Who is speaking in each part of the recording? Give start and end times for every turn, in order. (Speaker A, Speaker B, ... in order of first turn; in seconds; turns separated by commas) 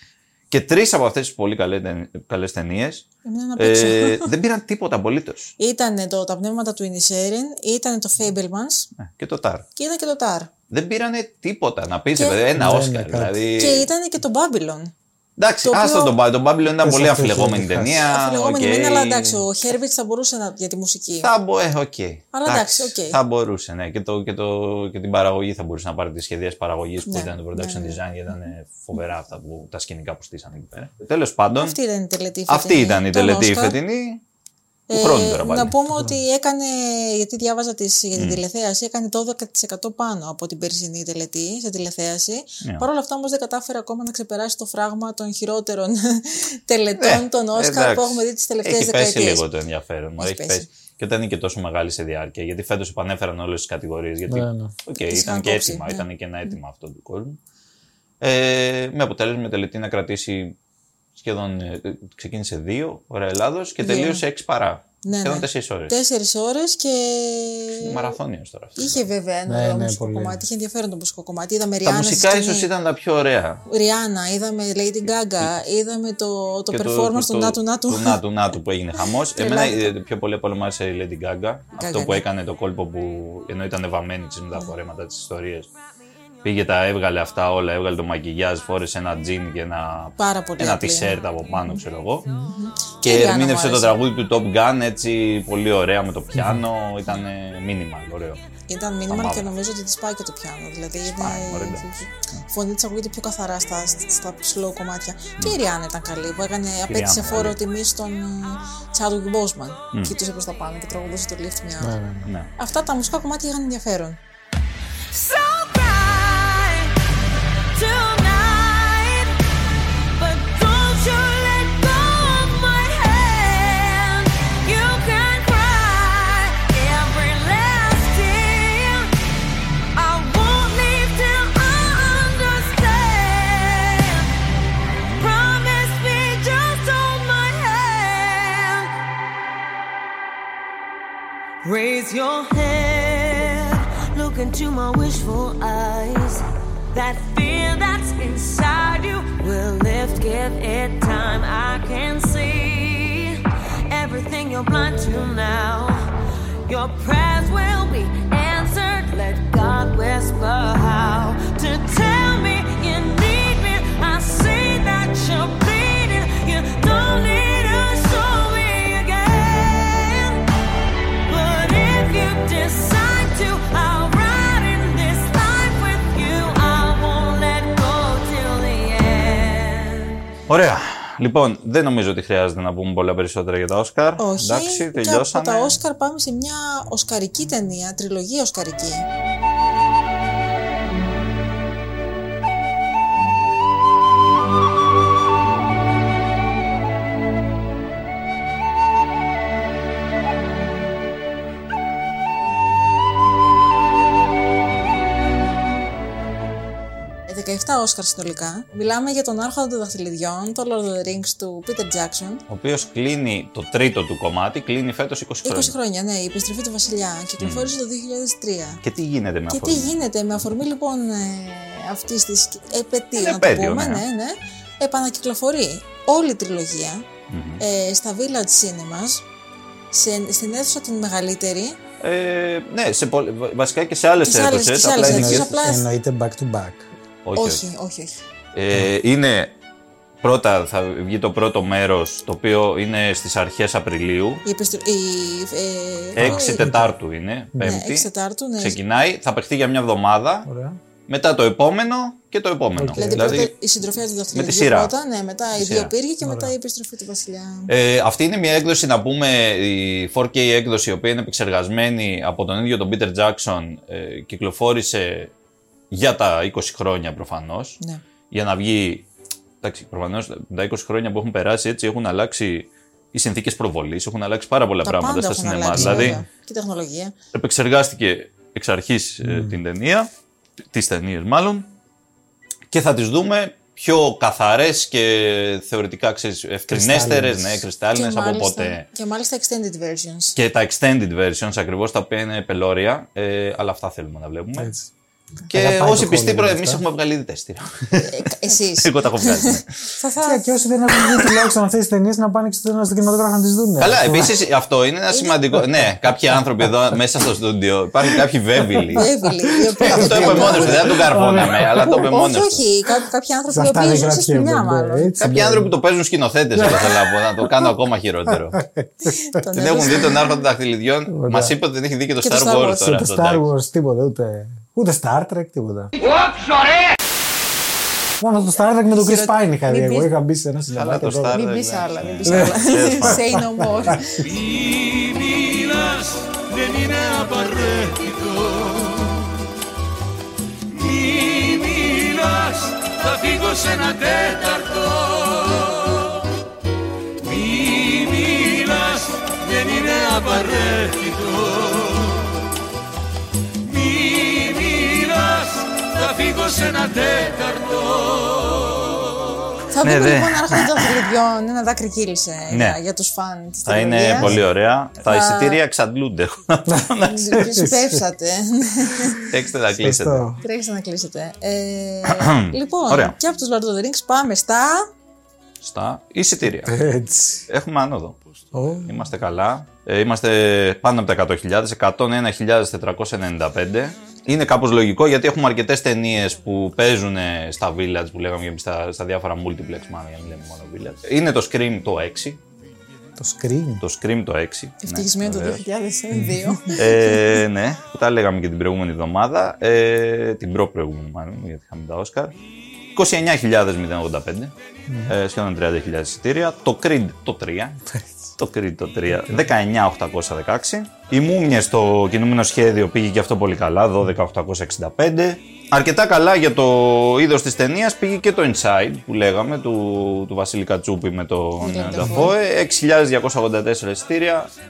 Speaker A: 0.5-5.5, Speaker B: 3.2-4.3, Speaker B: 5.6-8.9, Speaker A: 9.0-9.7, Speaker B: 9.8-10.5, Speaker A: 10.7-13.9, Speaker B: 12.2-12.4, Speaker C: 12.5-13.4, Speaker B: 13.6-14.9, Speaker A: 15.4-19.4, Speaker B: 15.6-16.1, Speaker C: 16.7-18.0, Speaker B: 17.9-21.3, Speaker A: 21.2-31.8, Speaker B: 22.3-23.2, Speaker B: 27.1-28.0, Speaker B: 31.6-33.8, Speaker A: 32.5-34.2, Speaker B: 34.9-49.4, Speaker A: 34.9-35.8, Speaker C: 35.9-36.2, Speaker A: 38.1-38.4, Speaker A: 47.0-57.4, Speaker B: 50.2-50.7, Speaker C: 54.3-54.7, Speaker B: 55.0-56.0, Speaker A: 58.2-60.5, Speaker A: 61.1-65.9, Speaker B: 63.8-64.2, Speaker B: 65.0-68.1, Speaker A: 67.8-69.0, Speaker B: 68.8-72.7, Speaker C: 69.5-70.4, Speaker A: 71.8-73.6, Speaker B: 73.7-78.2, Speaker A: 76.7-85.7, Speaker B: 79.3-79.9, Speaker B: 81.8-82.2, Speaker A: 86.4-92.3, Speaker B: 90.2-91.8, Speaker B: 92.4-94.0, Speaker A: 93.0-98.4, Speaker C: 96.3-96.6, Speaker B: 98.7-112.0, Speaker A: 99.1-99.5, Speaker A: 101.0-102.4, Speaker A: 106.9-107.6, Speaker C: 111.8-112.3, Speaker A: 112.2-112.5, Speaker B: 112.6-114.2, Speaker D: 115.1-116.9, Speaker D: 117.7-119.4, Speaker D: 120.2-129.1, Speaker D: 129.9-134.3, Speaker D: 135.2-138.9, Speaker D: 141.6-156.1, Speaker D: 156.7-170.4, Speaker D: 171.3-180.2, Speaker A: 180.5-185.8, Speaker B: 184.2-189.1, Speaker B: 207.3-212.4, Speaker A: 212.5-215.7, Speaker B: 215.4-218.8, Speaker A: 217.4-217.7, Speaker A: 218.8-219.9, Speaker B: 219.5-227.1, Speaker A: 223.2-224.0, Speaker A: 227.3-227.6, Speaker B: 227.6-229.2, Speaker B: 229.9-231.8, Speaker A: 232.0-235.5, Speaker B: 234.2-235.9, Speaker C: 235.0-236.9, Speaker A: 237.2-237.6, Speaker B: 237.3-238.2, Speaker A: 238.5-239.5, Speaker A: 240.2-244.4, Speaker B: 244.4-246.7, Speaker A: 246.2-248.1, Speaker C: 246.2-246.9, Speaker B: 247.6-248.8, Speaker A: 248.6-250.5, Speaker C: 250.4-250.8, Speaker A: 251.1-253.5, Speaker C: 252.8-253.5, Speaker B: 252.9-257.7, Speaker A: 254.3-254.9, Speaker A: 255.6-255.9, Speaker C: 256.2-256.5, Speaker A: 257.7-265.3, Speaker A: 265.9-267.8, Speaker A: 268.3-269.1, Speaker A: 269.6-276.2, Speaker B: 274.8-277.1, Speaker C: 275.7-276.2, Speaker A: 277.3-280.1, Speaker C: 279.2-279.6, Speaker A: 280.7-281.7, Speaker A: 282.7-288.9, Speaker C: 286.7-287.6, Speaker B: 287.9-290.4, Speaker A: 290.4-294.7, Speaker C: 294.6-294.9, Speaker A: 295.5-298.2, Speaker C: 295.5-296.8, Speaker B: 298.0-300.5, Speaker A: 298.7-299.9, Speaker C: 300.2-304.4, Speaker A: 303.8-309.1, Speaker B: 305.1-305.4, Speaker C: 308.8-312.1, Speaker B: 308.9-315.1, Speaker A: 309.8-312.6, Speaker C: 313.5-315.7, Speaker A: 315.2-318.6, Speaker C: 316.5-317.7, Speaker C: 318.3-319.4, Speaker B: 319.1-320.3, Speaker A: 319.5-323.5, Speaker C: 321.1-321.6, Speaker B: 322.2-322.9, Speaker C: 322.8-325.9, Speaker C: 328.2-331.4, Speaker B: 328.9-330.1, Speaker A: 330.7-333.3, Speaker B: 331.2-334.2, Speaker C: 332.2-334.0, Speaker E: 334.2-339.4, Speaker E: 340.7-346.2, Speaker E: 347.2-352.4, Speaker E: 353.6-359.4, Speaker B: 359.7-364.4, Speaker A: 359.8-360.9, Speaker A: 362.5-362.8, Speaker A: 363.6-367.4, Speaker C: 364.2-364.4, Speaker B: 365.0-365.6, Speaker C: 366.6-368.0, Speaker B: 367.0-369.3, Speaker A: 369.3-370.3, Speaker C: 369.8-370.4, Speaker B: 370.4-374.9, Speaker A: 372.0-373.1, Speaker A: 375.6-376.8, Speaker C: 376.5-377.5, Speaker A: 377.5-378.2, Speaker C: 378.5-379.0, Speaker A: 378.8-392.4, Speaker C: 393.2-393.8, Speaker A: 393.8-395.6, Speaker B: 394.8-397.4, Speaker C: 396.1-396.6, Speaker A: 396.7-402.3, Speaker A: 402.9-404.5, Speaker C: 404.9-405.1, Speaker A: 405.1-407.8, Speaker A: 408.4-424.5, Speaker B: 421.6-422.3